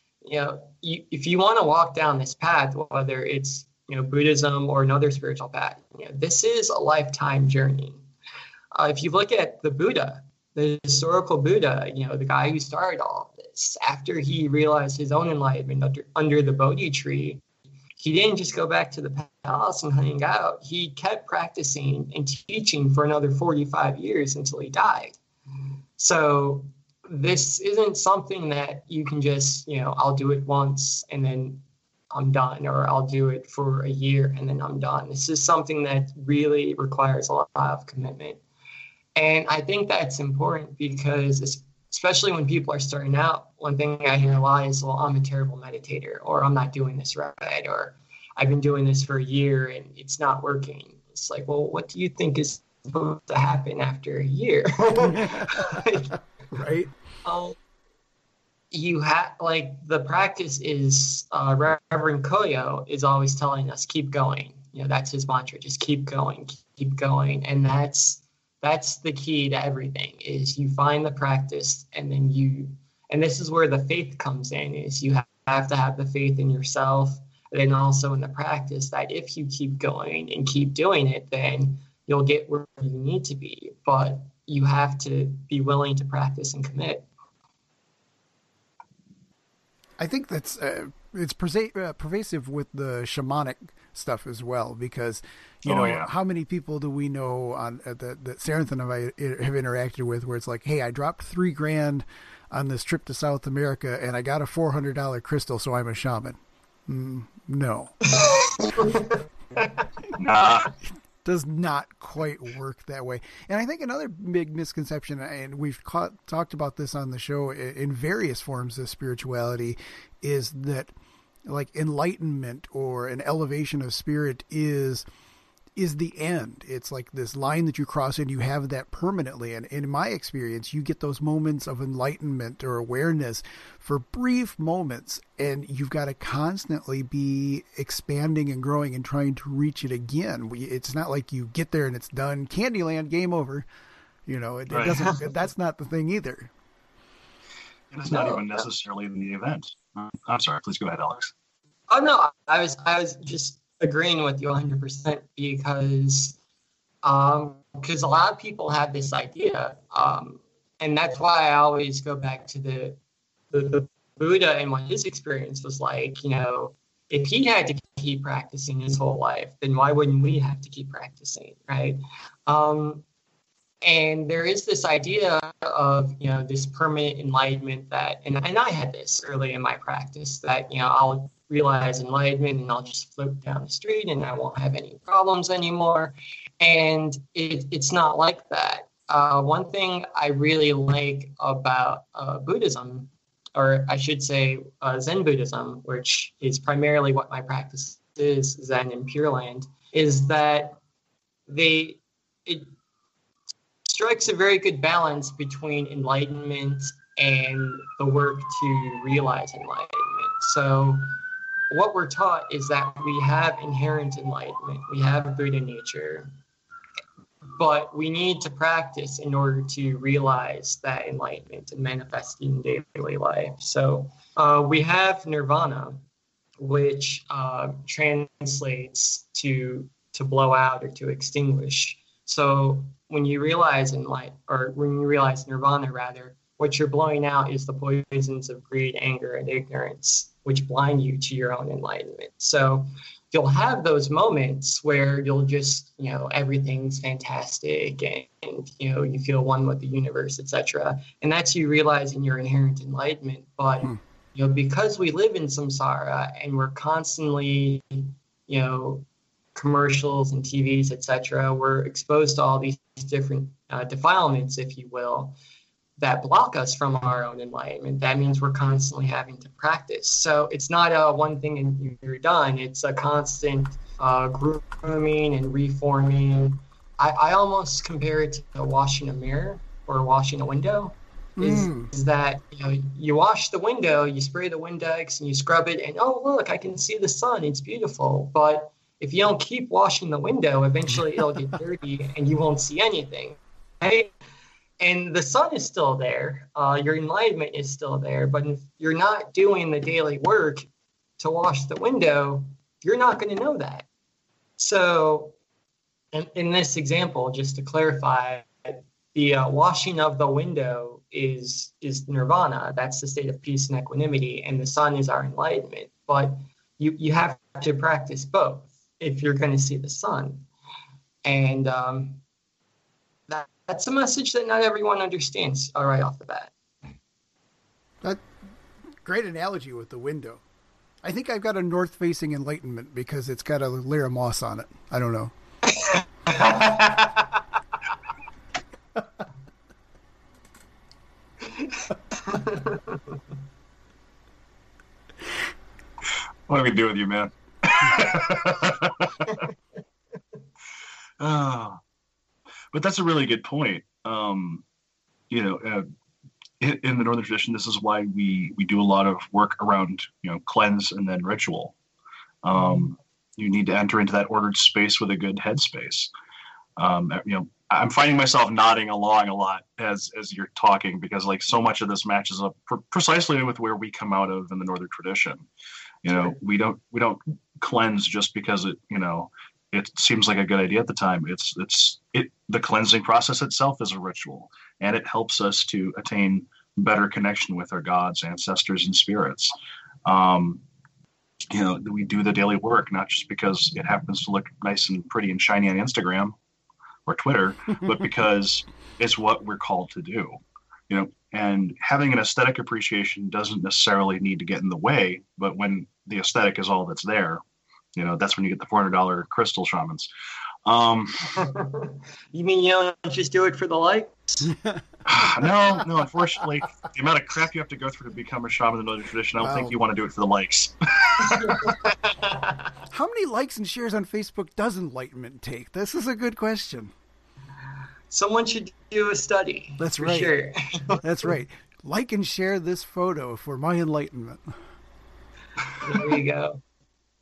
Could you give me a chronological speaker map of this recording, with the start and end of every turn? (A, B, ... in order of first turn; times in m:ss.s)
0:00.2-0:08.0 A
0:08.7-0:17.4 A
0:18.0-0:25.1 A
0:26.0-0:38.4 A
0:39.2-0:56.2 A
0:55.0-0:55.5 B
0:56.5-0:56.9 B
0:57.2-0:57.6 A
0:58.7-1:27.1 A
1:30.0-1:48.0 B
1:35.6-1:36.1 C
1:48.1-1:49.9 A
1:50.2-1:50.7 C
1:51.2-2:00.9 B
2:01.4-2:05.0 B
2:05.8-2:23.7 B
2:24.2-2:26.5 B
2:24.7-2:25.0 C
2:25.0-2:25.3 A
2:27.9-2:31.3 C
2:28.1-2:28.7 A
2:31.9-2:36.4 A
2:37.0-2:43.0 A
2:43.5-2:53.0 A
2:53.8-3:20.8 A
3:21.5-3:22.7 A
3:23.8-3:31.1 A
3:31.7-3:36.3 A
3:37.5-3:46.0 A
3:46.6-4:25.4 A
4:26.0-4:54.1 A
4:41.4-4:41.9 B
4:54.8-5:00.6 A
5:01.2-5:03.8 A
5:04.6-5:05.3 A
5:06.1-5:20.4 A
5:21.2-5:22.2 A
5:23.3-5:26.5 A
5:29.0-5:30.4 B
5:31.0-5:35.3 B
5:35.7-5:37.3 A
5:41.6-5:43.0 A
5:46.5-5:49.4 C
5:51.2-5:51.8 C
5:52.7-5:54.6 C
5:55.3-5:55.8 C
5:56.6-6:01.7 C
6:02.4-6:06.1 C
6:06.8-6:15.4 C
6:16.0-6:29.5 C
6:30.0-6:30.6 C
6:31.5-6:36.3 C
6:37.0-6:40.4 C
6:40.9-6:47.4 C
6:48.0-6:50.1 C
6:50.6-6:51.4 C
6:51.3-6:54.5 A
6:55.0-7:01.7 C
6:59.4-6:59.8 B
7:01.3-7:02.6 A
7:02.9-7:06.9 B
7:08.1-7:11.3 A
7:09.8-7:10.3 B
7:11.0-7:14.5 B
7:15.8-7:16.6 A